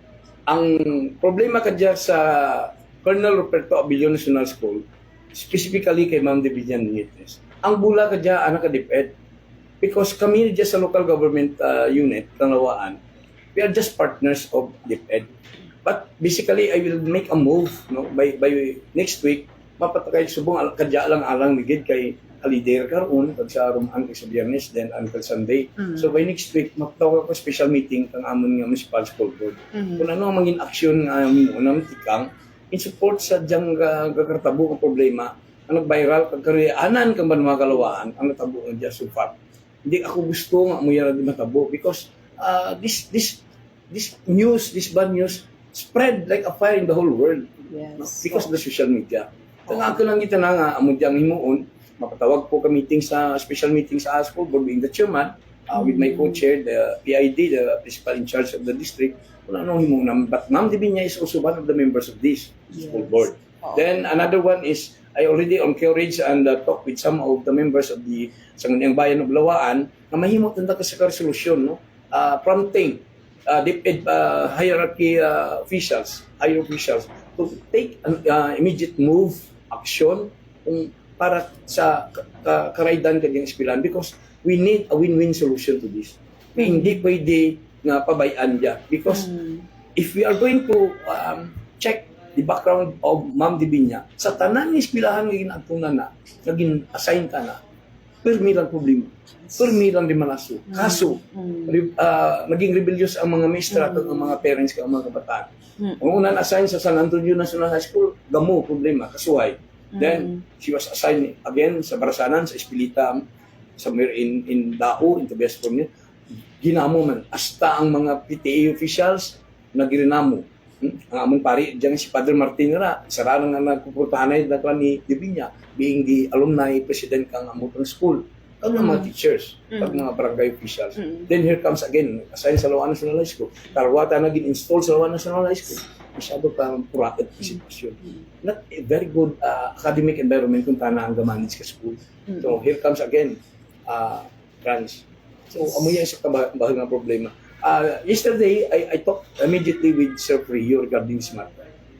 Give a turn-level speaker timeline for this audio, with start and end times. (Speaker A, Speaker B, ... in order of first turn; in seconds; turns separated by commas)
Speaker A: 0.5-9.1, Speaker A: 9.8-13.0, Speaker A: 13.6-15.3, Speaker A: 15.8-89.3, Speaker B: 47.7-48.3, Speaker B: 55.8-56.4, Speaker B: 86.6-86.9, Speaker B: 89.1-89.7, Speaker A: 90.0-97.6, Speaker A: 98.2-105.5, Speaker B: 100.7-101.7, Speaker A: 106.0-113.2, Speaker B: 110.0-110.4, Speaker A: 113.8-115.9, Speaker A: 116.6-151.5, Speaker B: 131.0-131.3